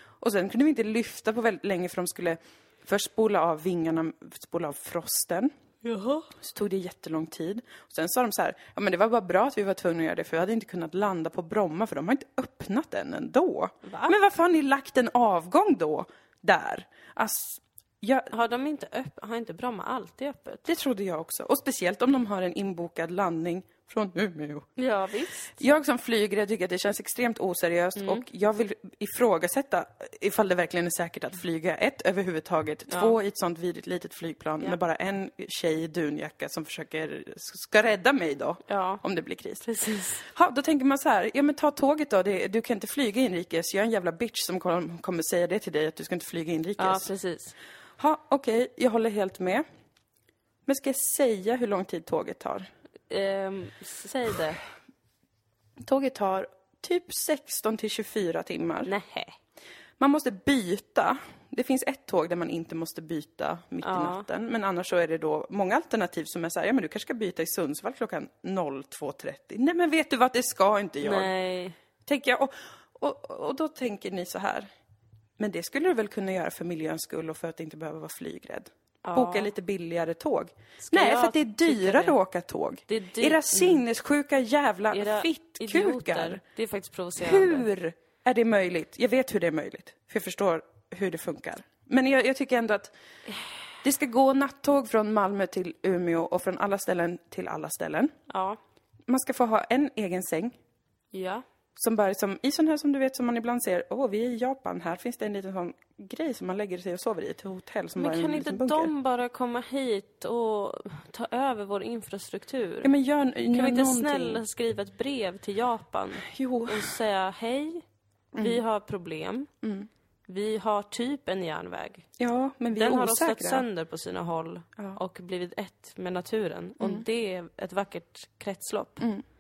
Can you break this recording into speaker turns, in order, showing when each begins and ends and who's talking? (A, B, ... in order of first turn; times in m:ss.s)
0:00.2-0:05.5 A
0:05.8-0:06.3 B
0:06.3-0:18.3 A
0:13.8-0:14.1 B
0:18.3-0:20.7 B
0:20.6-0:24.7 A
0:24.8-0:25.6 B
0:25.6-0:39.7 A
0:28.0-0:28.2 B
0:32.9-0:33.2 B
0:38.7-0:39.0 B
0:39.6-0:40.2 B
0:40.2-0:47.1 A
0:46.8-0:47.5 B
0:48.0-0:49.6 A
0:50.6-0:52.7 A
0:53.1-0:54.6 B
0:55.8-0:58.9 A
0:58.8-0:59.4 B
1:00.0-1:11.3 A
1:03.8-1:04.2 B
1:11.0-1:11.8 B
1:12.0-1:14.7 A
1:15.4-1:26.4 A
1:19.0-1:19.5 B
1:20.8-1:22.2 B
1:22.9-1:23.8 B
1:24.9-1:27.7 B
1:27.2-1:32.9 A
1:33.8-1:38.1 A
1:38.3-1:38.6 B
1:39.1-1:40.6 A
1:41.1-1:41.4 B
1:41.8-1:48.9 A
1:48.0-1:52.9 B
1:52.8-1:54.4 A
1:53.5-1:57.8 B
1:56.2-1:57.0 A
1:58.3-1:58.6 A
1:58.4-1:59.5 B
1:59.6-1:59.9 A
2:00.3-2:02.0 B
2:02.2-2:03.6 A
2:02.7-2:09.0 B
2:06.8-2:07.0 A